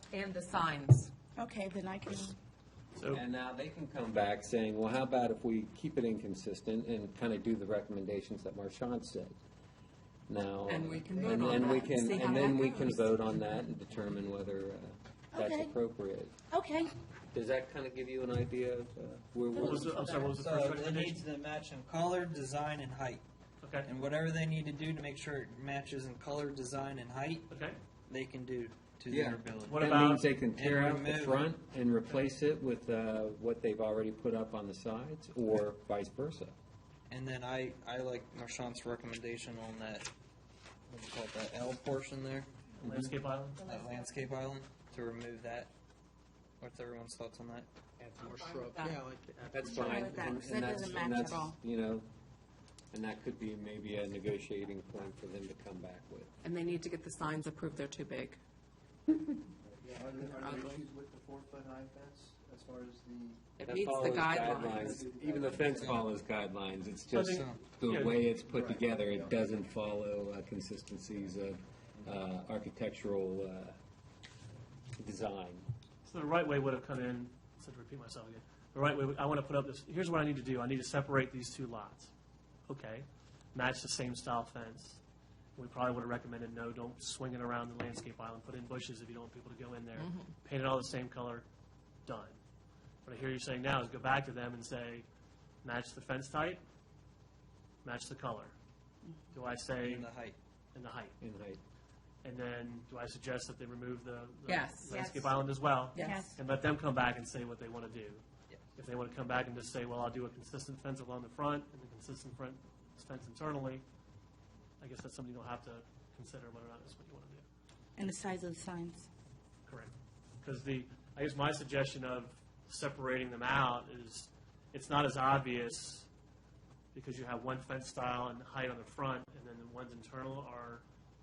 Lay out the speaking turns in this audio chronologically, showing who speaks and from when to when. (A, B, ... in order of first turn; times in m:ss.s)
0:00.1-0:01.1 A
0:01.4-0:02.4 B
0:03.0-0:03.2 C
0:03.1-0:09.4 D
0:10.3-0:16.3 D
0:10.6-0:13.2 A
0:11.1-0:12.0 E
0:15.3-0:15.8 B
0:16.5-0:16.9 B
0:17.3-0:20.0 D
0:19.5-0:20.3 B
0:19.6-0:21.2 C
0:20.4-0:23.2 F
0:23.6-0:23.9 C
0:23.8-0:27.5 F
0:27.5-0:27.8 C
0:28.1-0:29.9 F
0:29.1-0:36.5 D
0:29.6-0:30.2 C
0:30.5-0:31.5 F
0:37.1-0:40.1 F
0:40.9-0:42.5 F
0:42.8-0:43.6 C
0:42.8-0:43.1 D
0:43.6-0:44.0 B
0:43.6-0:45.7 F
0:46.6-0:47.7 F
0:48.0-0:50.4 G
0:48.2-0:49.0 A
0:49.5-0:52.0 D
0:49.6-0:51.6 B
0:52.9-0:56.3 D
0:56.4-0:58.4 A
0:59.6-1:03.5 E
1:00.2-1:00.8 A
1:03.6-1:05.1 A
1:03.6-1:13.8 D
1:04.1-1:06.2 E
1:07.1-1:08.2 C
1:07.3-1:07.6 F
1:08.4-1:09.4 E
1:15.0-1:15.6 D
1:16.0-1:22.1 C
1:22.7-1:25.0 C
1:25.6-1:31.5 C
1:30.0-1:30.2 A
1:32.0-1:32.4 C
1:33.0-1:35.0 C
1:35.6-1:36.6 C
1:37.8-1:38.5 C
1:39.3-1:40.1 C
1:39.8-1:40.4 F
1:40.7-1:41.2 C
1:41.2-1:41.6 D
1:42.2-1:48.2 C
1:44.4-1:45.2 A
1:44.9-1:45.3 B
1:45.9-1:46.3 A
1:46.0-1:46.4 B
1:48.8-1:53.8 C
1:54.8-1:57.4 C
1:58.0-1:59.1 B
1:59.6-2:06.1 C
2:06.9-2:10.8 C